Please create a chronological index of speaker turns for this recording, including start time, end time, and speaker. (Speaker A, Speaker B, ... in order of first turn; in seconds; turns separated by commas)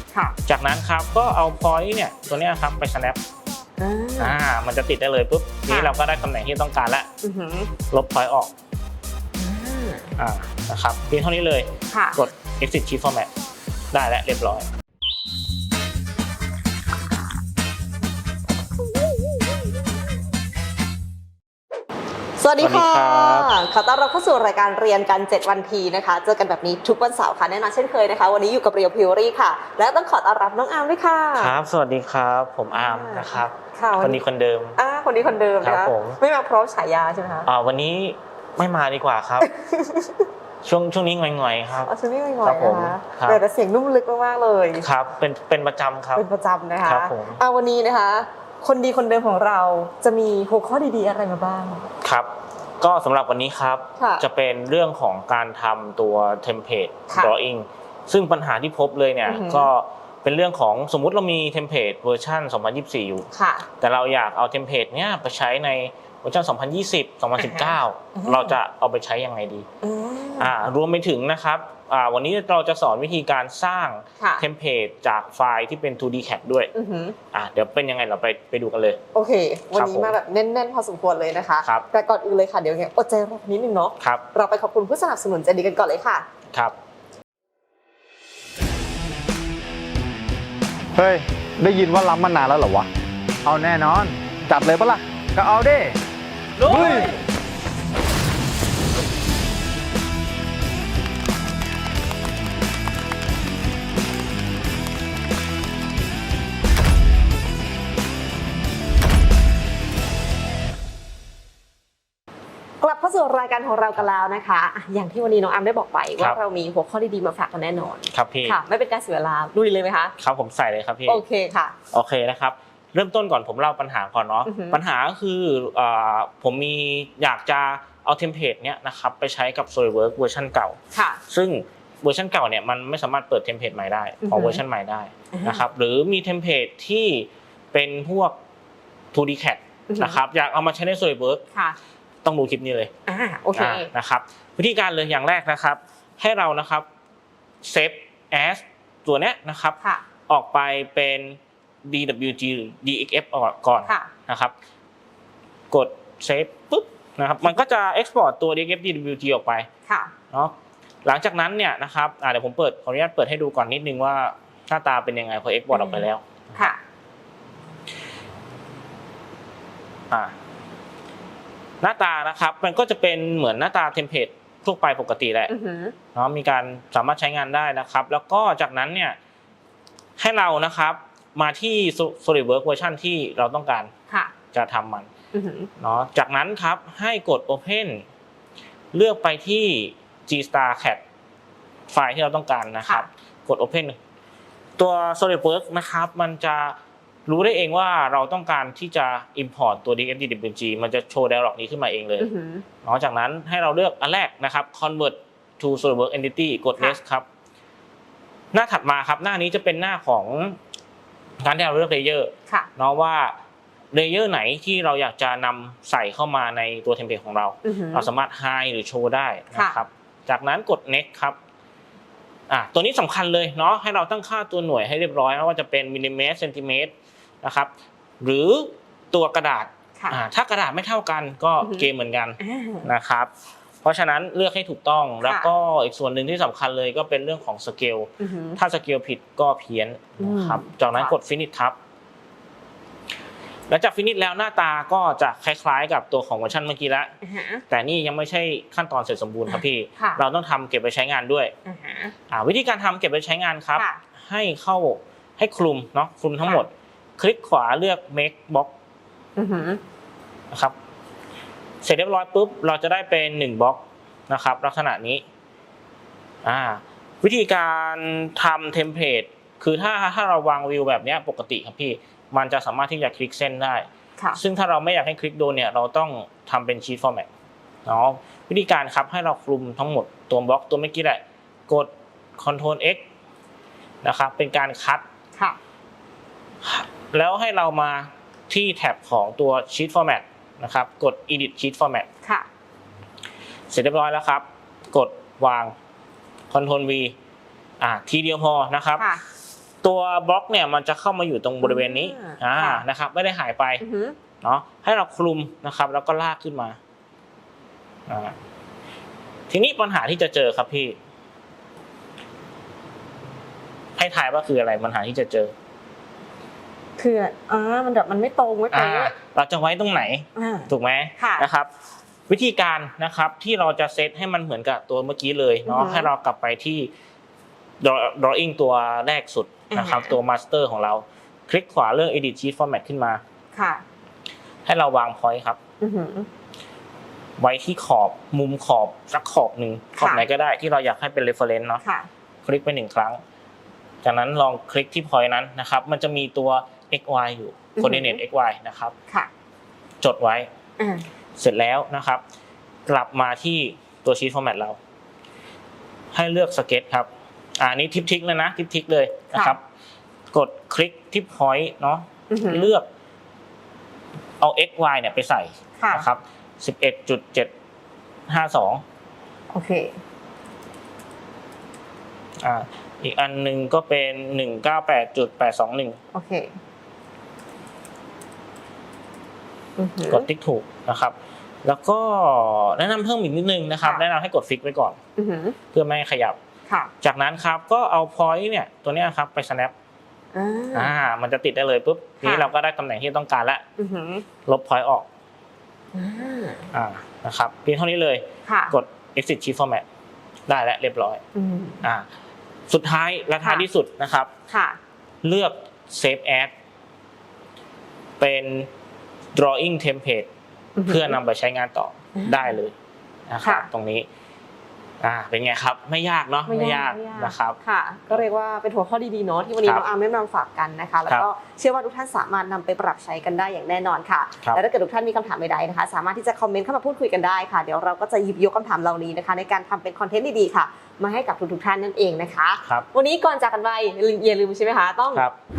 Speaker A: 0.4-3.2, Speaker B: 3.8-4.4, Speaker A: 4.2-7.1, Speaker B: 5.7-5.9, Speaker B: 7.2-7.7, Speaker A: 7.9-8.5, Speaker B: 9.4-10.1, Speaker A: 10.2-13.3, Speaker B: 11.9-12.2, Speaker A: 13.9-14.6, Speaker B: 22.4-31.5, Speaker A: 22.6-23.5, Speaker A: 31.4-34.8, Speaker B: 32.7-34.2, Speaker B: 34.8-37.5, Speaker A: 35.6-36.2, Speaker A: 37.5-39.5, Speaker B: 39.4-40.3, Speaker A: 40.6-41.9, Speaker B: 41.8-44.9, Speaker A: 42.4-43.4, Speaker A: 44.8-46.2, Speaker B: 46.1-51.9, Speaker A: 46.8-47.4, Speaker A: 52.0-63.3, Speaker B: 54.0-54.2, Speaker B: 59.2-59.7, Speaker B: 63.3-63.7, Speaker A: 63.8-69.7, Speaker B: 67.4-68.6, Speaker B: 69.8-70.6, Speaker A: 70.4-76.7, Speaker B: 76.8-77.2, Speaker A: 77.3-79.0, Speaker B: 79.1-86.2, Speaker A: 79.7-80.2, Speaker A: 84.0-84.2, Speaker C: 91.0-92.9, Speaker C: 93.4-96.0, Speaker C: 96.6-97.1, Speaker B: 112.8-120.1, Speaker A: 118.1-118.6, Speaker A: 120.2-121.2, Speaker B: 121.0-121.7, Speaker A: 121.9-138.4, Speaker B: 124.5-124.8, Speaker B: 130.9-131.2, Speaker B: 134.2-134.6, Speaker B: 135.3-135.6, Speaker A: 139.1-141.4, Speaker B: 139.9-140.2, Speaker A: 142.2-142.9, Speaker B: 143.1-143.9, Speaker A: 143.5-146.8, Speaker A: 147.6-154.5, Speaker B: 153.8-154.1, Speaker A: 155.7-159.7, Speaker B: 159.9-160.1, Speaker A: 161.0-166.7, Speaker B: 165.7-166.8, Speaker A: 171.8-175.5, Speaker B: 175.5-175.9, Speaker A: 176.1-179.2, Speaker A: 180.2-183.9, Speaker A: 184.5-185.1, Speaker B: 185.3-185.7, Speaker A: 185.8-188.0, Speaker A: 188.9-191.0, Speaker A: 191.9-194.0, Speaker A: 194.8-196.7, Speaker A: 197.3-202.3, Speaker B: 202.2-202.6, Speaker A: 202.8-207.2, Speaker A: 208.5-210.6, Speaker A: 211.4-213.3, Speaker A: 213.9-221.4, Speaker B: 217.6-218.1, Speaker B: 219.5-219.8, Speaker A: 222.5-227.7, Speaker A: 228.2-233.3, Speaker B: 231.6-231.9, Speaker B: 232.4-232.9, Speaker A: 233.8-241.8, Speaker B: 235.2-235.5, Speaker B: 238.2-238.6, Speaker B: 240.2-241.1, Speaker A: 243.7-247.1, Speaker B: 247.2-247.6, Speaker A: 247.7-251.5, Speaker B: 249.5-250.2, Speaker B: 251.7-252.1, Speaker A: 252.3-258.7, Speaker B: 259.4-259.8, Speaker A: 261.8-265.2, Speaker A: 266.4-277.3, Speaker A: 277.9-283.0, Speaker A: 284.0-285.0, Speaker A: 286.6-292.1, Speaker A: 293.7-295.7, Speaker A: 296.5-297.1, Speaker A: 297.8-299.1, Speaker B: 299.0-299.2, Speaker A: 299.8-303.8, Speaker B: 301.6-302.8, Speaker B: 303.8-304.2, Speaker A: 304.4-306.8, Speaker A: 308.1-308.3, Speaker A: 309.5-311.0, Speaker A: 314.0-315.5, Speaker B: 317.0-319.1, Speaker A: 318.7-321.7, Speaker B: 320.4-321.5, Speaker A: 322.3-326.9, Speaker B: 325.7-326.1, Speaker A: 327.8-333.2, Speaker B: 329.7-330.1, Speaker B: 333.5-333.8, Speaker A: 334.6-335.6, Speaker B: 335.8-336.3, Speaker A: 337.4-341.8, Speaker B: 340.0-340.2, Speaker B: 341.8-342.1, Speaker A: 342.4-343.2, Speaker A: 344.0-348.9, Speaker B: 347.8-348.2, Speaker A: 350.0-350.5, Speaker B: 350.8-351.0, Speaker A: 351.4-352.2, Speaker A: 352.9-354.8, Speaker A: 356.1-359.6, Speaker A: 360.3-362.9, Speaker B: 362.3-362.7, Speaker A: 364.4-367.5, Speaker B: 365.8-366.1, Speaker A: 368.3-368.8, Speaker B: 369.5-369.9, Speaker A: 372.4-376.0, Speaker B: 376.1-376.5, Speaker B: 379.8-380.3, Speaker A: 380.1-385.0, Speaker B: 385.2-385.6, Speaker A: 385.7-386.4, Speaker A: 387.0-389.7, Speaker B: 390.3-390.9, Speaker A: 390.7-393.6, Speaker B: 392.2-392.5, Speaker B: 393.8-394.2, Speaker A: 394.4-395.1, Speaker B: 395.9-396.7, Speaker A: 396.7-399.8, Speaker B: 398.5-398.7, Speaker A: 400.5-401.2, Speaker B: 401.3-401.8, Speaker A: 402.7-404.3, Speaker B: 404.5-404.8, Speaker A: 405.2-406.5, Speaker A: 408.2-408.7, Speaker A: 409.3-410.3, Speaker B: 410.8-411.2, Speaker A: 410.9-412.8, Speaker B: 412.2-412.5, Speaker A: 413.3-414.1, Speaker A: 415.0-417.6, Speaker B: 416.5-435.2